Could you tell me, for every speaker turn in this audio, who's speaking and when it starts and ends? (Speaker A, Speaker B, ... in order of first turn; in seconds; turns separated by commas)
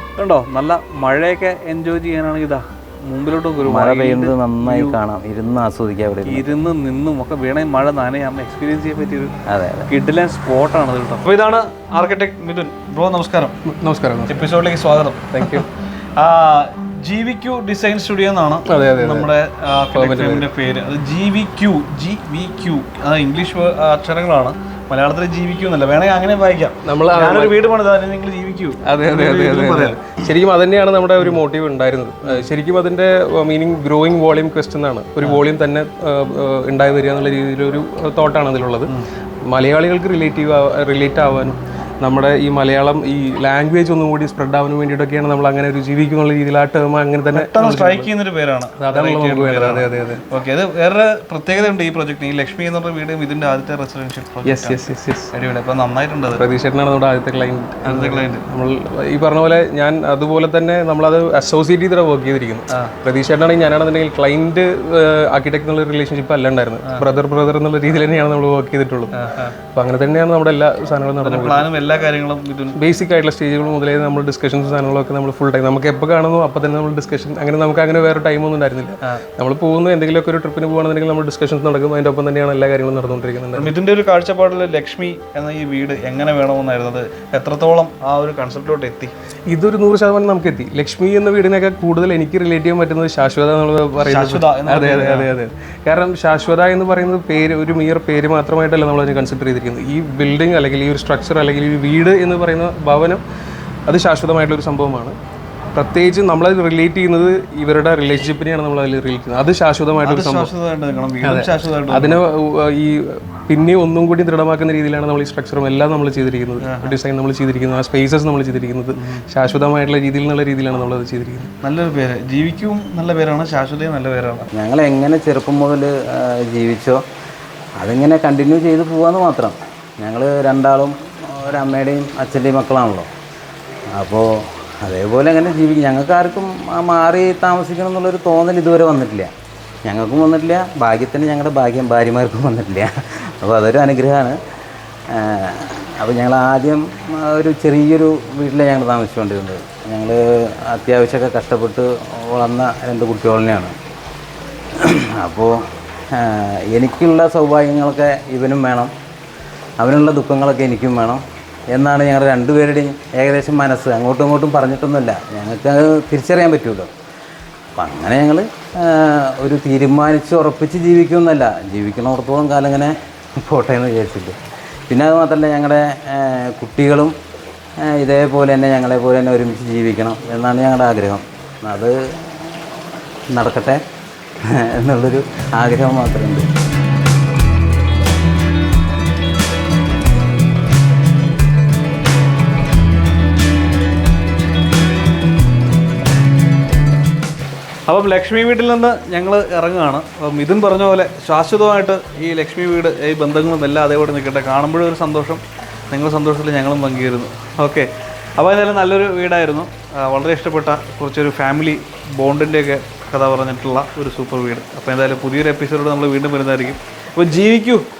Speaker A: 0.2-5.0, Speaker B: 3.6-6.4, Speaker A: 6.2-9.3, Speaker B: 9.4-9.9, Speaker A: 9.9-13.5, Speaker C: 13.7-14.5, Speaker A: 14.3-30.2, Speaker C: 15.3-15.7, Speaker C: 18.7-19.3, Speaker C: 19.9-20.5, Speaker C: 26.8-27.6, Speaker C: 28.8-38.9, Speaker C: 39.5-48.1, Speaker A: 47.3-56.4, Speaker C: 48.8-50.2, Speaker C: 54.4-55.3, Speaker C: 56.3-69.1, Speaker A: 57.8-58.4, Speaker A: 69.1-69.6, Speaker C: 69.7-71.7, Speaker A: 71.2-72.8, Speaker C: 72.8-83.7, Speaker A: 83.5-89.1, Speaker C: 89.5-103.2, Speaker A: 94.0-95.3, Speaker C: 103.9-105.1, Speaker C: 105.7-110.5, Speaker A: 110.0-112.2, Speaker C: 111.2-121.5, Speaker A: 116.6-117.0, Speaker A: 119.0-119.2, Speaker A: 121.6-124.5, Speaker B: 124.5-127.0, Speaker B: 127.8-133.1, Speaker B: 133.9-139.3, Speaker B: 139.8-144.4, Speaker B: 145.1-153.8, Speaker B: 154.8-158.9, Speaker B: 159.8-166.9, Speaker B: 167.8-174.4, Speaker B: 174.9-177.2, Speaker B: 177.8-182.7, Speaker B: 183.3-183.8, Speaker B: 184.4-186.5, Speaker A: 197.9-217.8